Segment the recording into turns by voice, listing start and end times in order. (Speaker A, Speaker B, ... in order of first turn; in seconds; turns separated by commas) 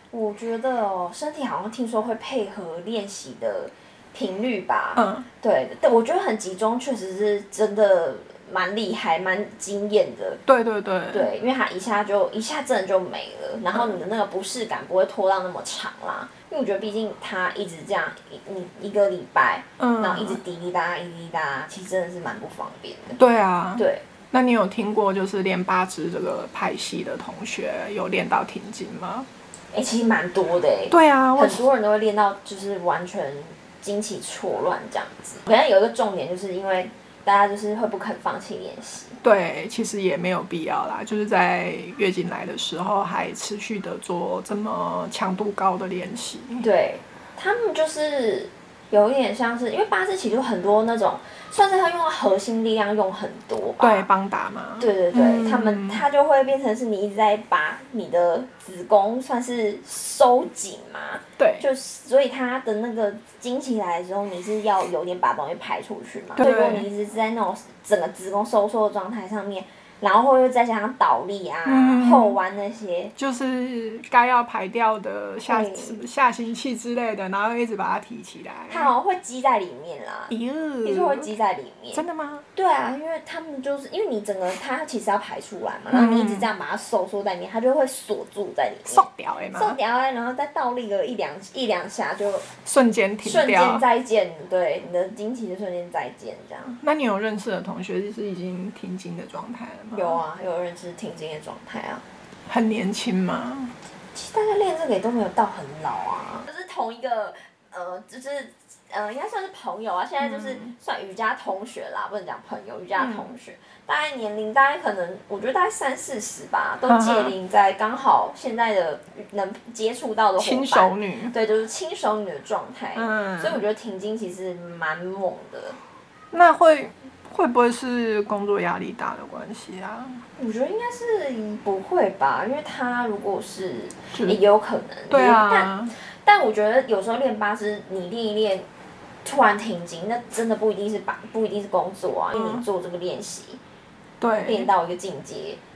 Speaker A: 0.1-10.4, Speaker B: 5.0-5.3, Speaker B: 10.5-11.3, Speaker A: 11.1-23.2, Speaker B: 13.7-14.0, Speaker B: 19.8-20.4, Speaker B: 23.2-29.3, Speaker A: 23.8-24.0, Speaker A: 29.7-39.2, Speaker B: 30.9-31.7, Speaker B: 39.2-46.6, Speaker A: 46.6-54.1, Speaker B: 53.8-56.0, Speaker A: 54.8-73.1, Speaker B: 61.4-61.7, Speaker B: 66.4-66.9, Speaker B: 71.6-72.4, Speaker B: 73.2-78.9, Speaker A: 75.4-76.0, Speaker A: 78.7-82.0, Speaker B: 80.3-81.3, Speaker B: 81.9-82.4, Speaker A: 82.5-92.5, Speaker B: 85.9-86.5, Speaker B: 88.8-89.8, Speaker B: 92.6-93.8, Speaker A: 93.2-96.8, Speaker B: 96.8-100.2, Speaker A: 99.9-102.0, Speaker B: 102.5-103.7, Speaker A: 104.1-125.8, Speaker B: 110.2-110.7, Speaker B: 113.0-113.3, Speaker B: 116.8-117.3, Speaker B: 120.4-121.3, Speaker B: 122.9-123.6, Speaker B: 126.3-130.2, Speaker A: 130.4-135.7, Speaker B: 134.1-134.4, Speaker B: 135.1-135.9, Speaker A: 136.2-138.7, Speaker A: 139.2-143.6, Speaker B: 142.3-142.6, Speaker B: 144.2-144.7, Speaker A: 144.4-145.6